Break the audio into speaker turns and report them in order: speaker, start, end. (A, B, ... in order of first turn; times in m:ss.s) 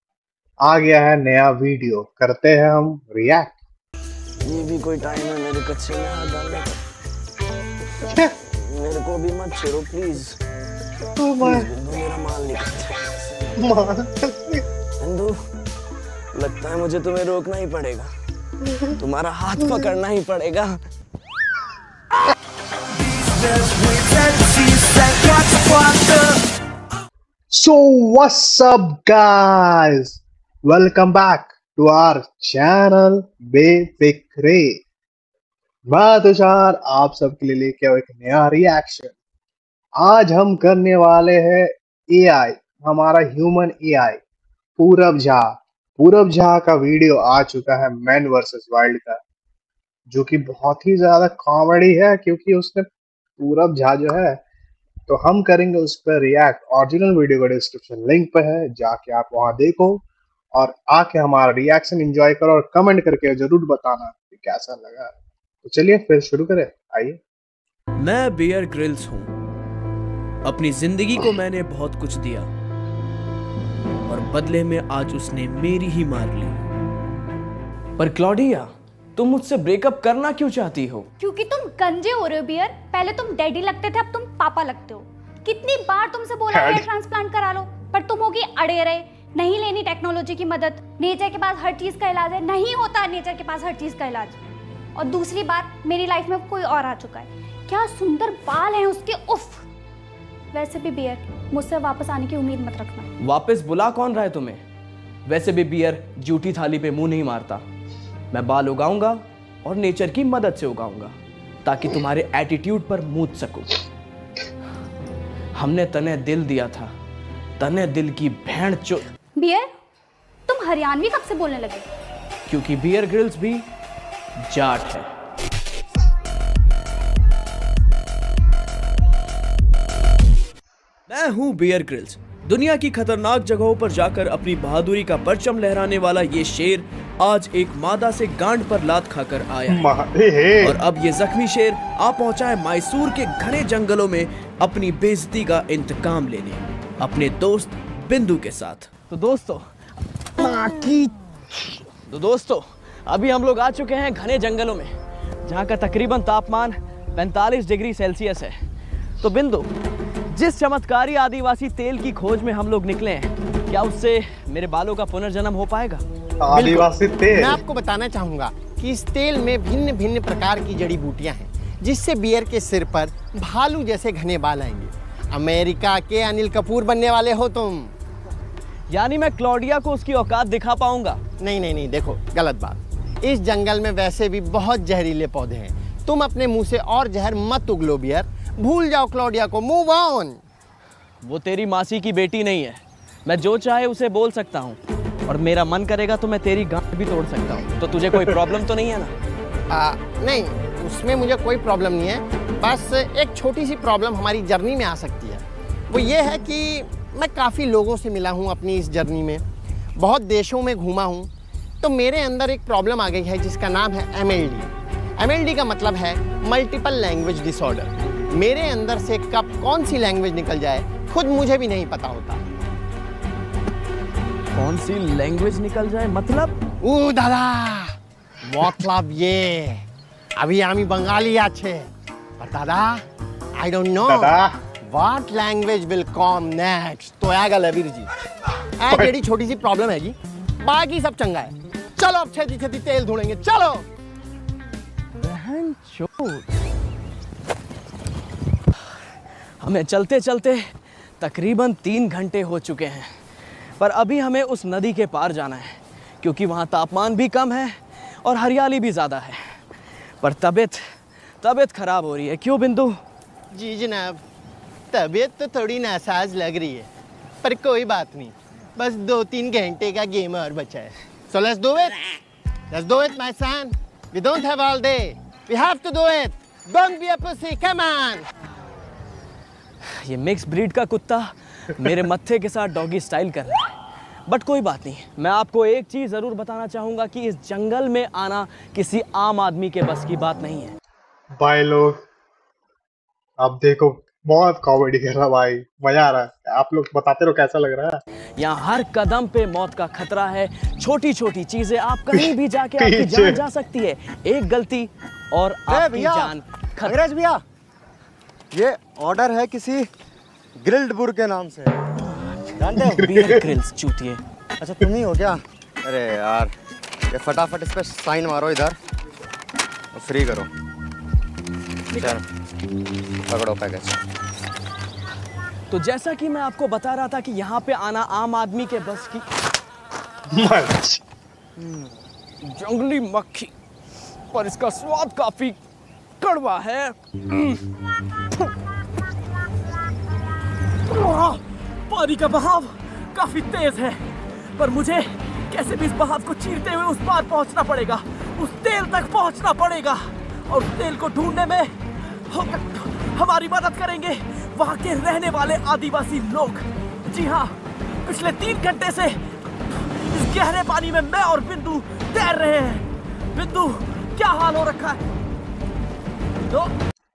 0:00.6-0:03.6 A
0:04.4-0:06.8 B
0:08.0-0:10.4 B
0:11.2-0:11.7 A
0:11.4-0:13.6 B
0:13.6-0:14.6 A
0:15.0-0:15.4 B
0:16.3-0:18.1 B
0:18.7-0:19.0 A
0:19.0-0:20.8 B
0:23.2-0:26.1 C
0:23.6-0:26.0 B
0:27.5-0:34.8 A
0:35.9-0:39.1 A
0:40.0-0:44.2 A
0:44.8-0:49.2 A
0:50.1-0:54.4 A
0:55.1-1:07.2 A
1:08.0-1:09.3 C
1:10.4-1:12.5 C
1:14.0-1:16.6 C
1:18.0-1:21.1 B
1:21.2-1:34.4 D
1:26.5-1:26.8 A
1:35.0-1:39.6 D
1:40.5-1:43.1 D
1:43.2-1:44.6 B
1:45.2-1:47.6 B
1:48.3-1:53.7 B
1:55.5-1:56.9 B
1:57.6-1:59.1 B
1:59.4-1:59.7 D
2:00.5-2:01.9 D
2:02.5-2:03.7 C
2:04.5-2:05.1 B
2:11.1-2:19.9 C
2:19.7-2:20.8 A
2:20.6-2:28.9 C
2:29.1-2:29.7 B
2:30.3-2:31.2 B
2:32.0-2:34.9 B
2:35.4-2:38.6 B
2:39.2-2:39.7 B
2:40.3-2:46.0 B
2:46.4-2:47.6 A
2:46.5-2:46.9 B
2:47.3-2:57.9 E
2:58.9-3:01.2 B
3:01.4-3:10.4 E
3:11.2-3:19.1 B
3:19.7-3:29.4 E
3:30.0-3:31.3 E
3:31.8-3:42.4 E
3:44.5-3:46.6 B
3:46.8-3:53.0 E
3:53.6-3:58.1 E
3:54.0-3:54.6 A
3:58.8-4:03.9 E
4:05.2-4:06.5 B
4:09.6-4:13.1 B
4:13.8-4:19.6 B
4:20.2-4:20.8 B
4:21.4-4:23.0 B
4:23.5-4:24.2 E
4:24.9-4:26.9 E
4:27.4-4:32.2 E
4:32.7-4:38.2 E
4:39.8-4:43.8 B
4:44.3-4:50.8 B
4:51.4-4:52.0 A
4:53.4-4:58.0 A
4:58.4-5:07.0 B
5:02.1-5:03.4 A
5:05.7-5:07.4 F
5:08.5-5:09.9 F
5:10.6-5:11.8 F
5:12.6-5:13.1 F
5:12.8-5:14.2 B
5:13.1-5:13.5 A
5:14.6-5:16.5 F
5:17.1-5:18.8 F
5:19.9-5:20.5 F
5:21.9-5:22.2 F
5:23.3-5:24.0 F
5:25.7-5:29.2 B
5:30.3-5:31.0 A
5:31.6-5:33.5 B
5:34.3-5:35.6 B
5:36.2-5:37.6 B
5:40.8-5:59.2 B
5:59.7-6:05.0 B
6:06.4-6:06.7 B